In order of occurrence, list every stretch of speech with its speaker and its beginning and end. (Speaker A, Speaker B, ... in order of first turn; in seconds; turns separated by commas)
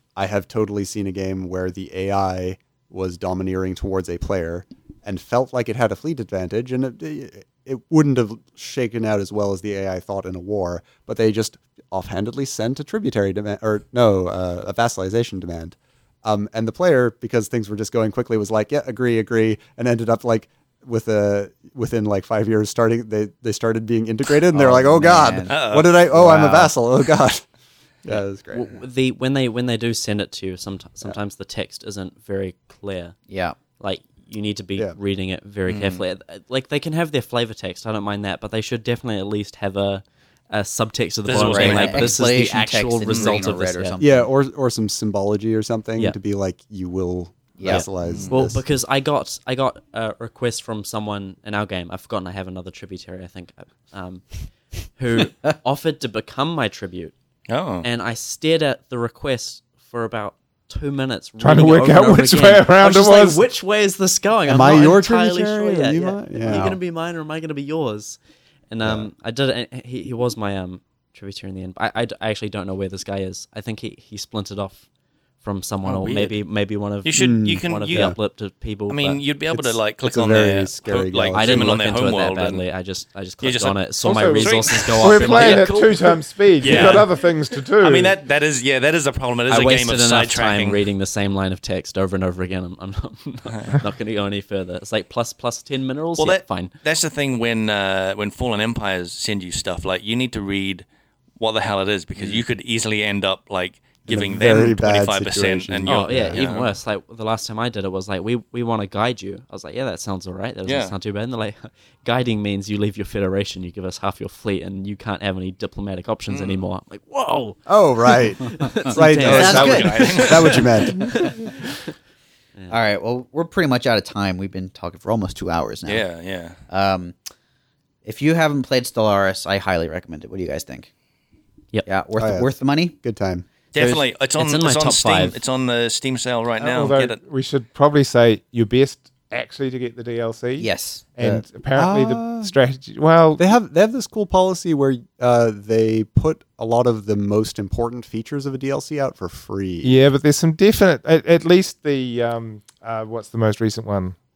Speaker A: 0.1-27.4, Speaker B: 24.5-26.7, Speaker C: 25.4-26.0, Speaker A: 28.0-28.8, Speaker D: 28.5-33.1, Speaker B: 33.3-33.6, Speaker D: 33.8-44.0, Speaker C: 35.6-36.0, Speaker C: 41.2-42.2, Speaker B: 41.4-44.3, Speaker C: 43.1-43.4, Speaker A: 44.0-48.6, Speaker B: 47.6-47.9, Speaker D: 47.7-57.1, Speaker C: 48.0-48.3, Speaker C: 57.5-57.9, Speaker D: 57.8-68.2, Speaker E: 61.4-63.4, Speaker A: 64.4-66.8, Speaker B: 66.4-66.8, Speaker D: 68.7-74.8, Speaker A: 68.8-69.1, Speaker D: 75.4-79.7, Speaker C: 75.8-76.4, Speaker C: 77.0-78.1, Speaker A: 77.2-78.2, Speaker C: 78.9-82.6, Speaker A: 80.0-81.7, Speaker D: 81.3-87.2, Speaker C: 83.4-85.8, Speaker E: 84.0-88.2, Speaker C: 86.6-87.2, Speaker C: 87.8-90.8, Speaker D: 89.5-96.7, Speaker C: 96.2-100.8, Speaker C: 101.4-106.7, Speaker A: 104.1-106.4, Speaker D: 105.8-121.9, Speaker C: 110.6-110.9, Speaker C: 116.3-116.6, Speaker A: 117.7-121.3, Speaker C: 119.2-120.8, Speaker B: 119.2-120.2, Speaker B: 122.7-126.0, Speaker C: 125.8-126.6, Speaker B: 126.7-127.1, Speaker B: 128.0-130.9, Speaker B: 131.8-133.0, Speaker A: 132.2-133.4, Speaker C: 133.7-137.2, Speaker B: 133.7-134.0, Speaker D: 134.4-135.4, Speaker E: 136.6-143.5, Speaker B: 140.6-141.0, Speaker A: 141.2-142.5, Speaker A: 143.4-150.0, Speaker E: 149.8-154.2